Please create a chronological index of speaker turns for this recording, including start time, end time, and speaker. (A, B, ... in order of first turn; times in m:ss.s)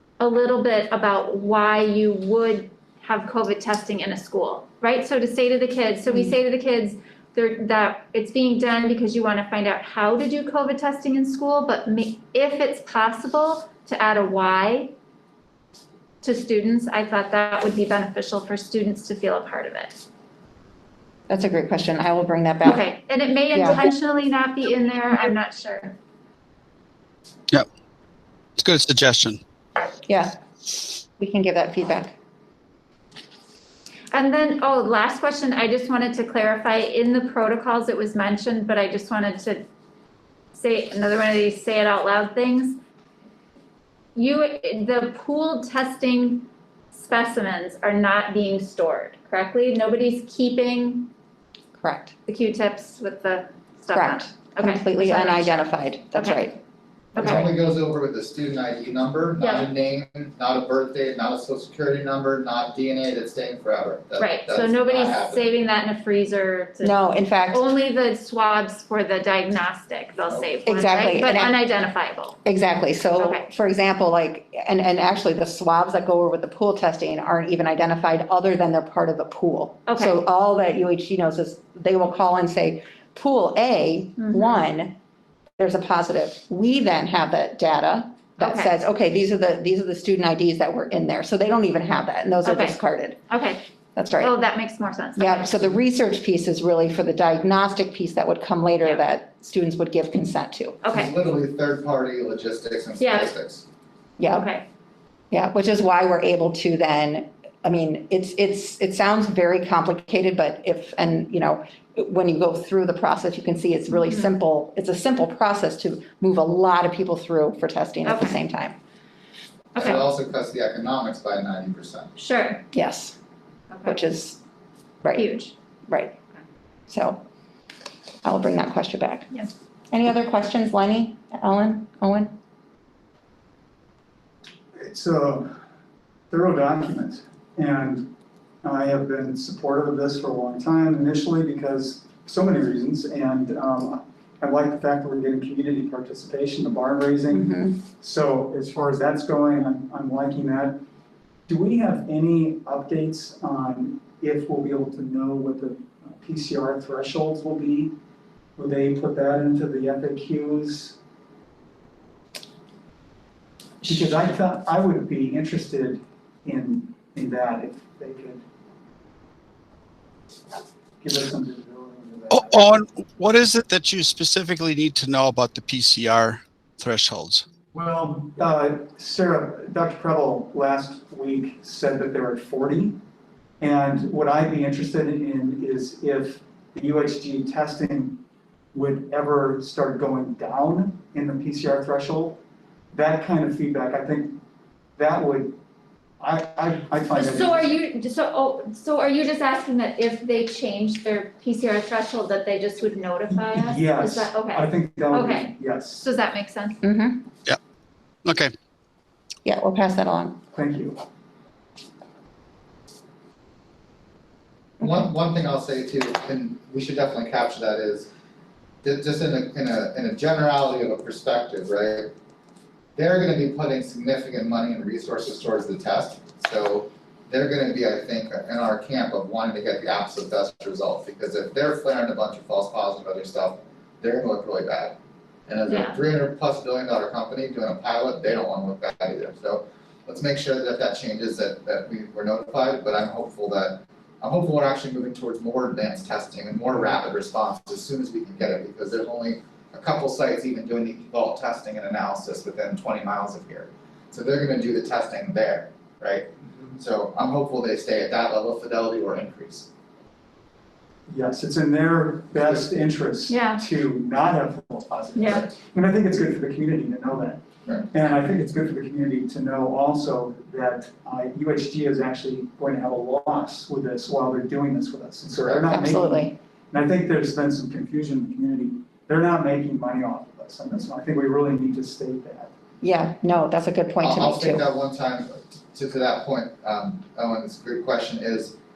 0:00.2-0:14.9 A
0:16.2-0:20.0 A
0:21.3-0:22.8 B
0:22.6-0:25.9 A
0:23.5-0:23.8 B
0:28.6-0:29.4 C
0:30.0-0:30.3 B
0:31.2-0:32.1 B
0:34.1-0:39.6 A
0:40.5-0:42.8 A
0:44.2-0:51.1 A
0:51.8-0:52.1 B
0:52.2-0:56.4 A
0:53.9-0:56.6 B
0:57.1-0:57.5 A
0:57.2-0:57.5 B
0:57.2-1:05.4 D
0:59.4-0:59.7 A
1:04.2-1:07.0 A
1:06.8-1:07.6 B
1:07.5-1:12.4 A
1:10.6-1:11.6 B
1:12.4-1:24.9 B
1:13.2-1:13.5 A
1:19.9-1:20.2 A
1:24.2-1:24.6 A
1:25.6-1:33.2 B
1:28.4-1:28.7 A
1:32.4-1:32.8 A
1:33.3-1:33.6 A
1:33.9-1:34.3 B
1:34.2-1:35.7 A
1:35.2-1:40.8 B
1:40.8-1:41.1 A
1:40.9-1:43.6 D
1:43.0-1:43.3 A
1:44.2-1:44.5 B
1:44.3-1:44.6 A
1:45.3-1:58.8 B
1:58.0-1:58.3 A
1:59.7-2:00.0 A
1:59.8-2:02.1 D
2:02.2-2:02.6 A
2:02.7-2:03.2 B
2:03.7-2:04.0 A
2:03.8-2:04.4 B
2:05.0-2:05.3 B
2:05.1-2:05.5 A
2:05.9-2:06.1 B
2:06.9-2:07.2 B
2:08.2-2:09.3 B
2:09.9-2:12.3 B
2:14.8-2:15.5 E
2:16.3-2:18.1 E
2:18.6-2:30.8 E
2:27.3-2:27.8 B
2:31.5-2:37.9 E
2:38.6-2:41.0 E
2:43.8-2:48.4 E
2:51.0-2:52.8 E
2:52.3-2:57.4 C
2:57.7-3:03.0 E
3:03.6-3:08.2 E
3:08.7-3:12.4 E
3:12.9-3:14.4 E
3:15.0-3:15.6 E
3:16.2-3:17.7 E
3:17.1-3:26.8 A
3:23.3-3:26.0 E
3:26.8-3:27.3 B
3:28.2-3:28.5 C
3:29.4-3:30.4 B
3:30.5-3:31.0 E
3:34.8-3:38.1 D
3:38.8-3:42.1 D
3:43.0-4:19.7 D
3:55.7-3:55.9 A
4:21.1-4:42.5 E
4:23.3-4:23.6 A
4:25.2-4:25.5 A
4:35.5-4:36.3 B
4:42.8-4:44.6 B
4:44.0-4:48.6 D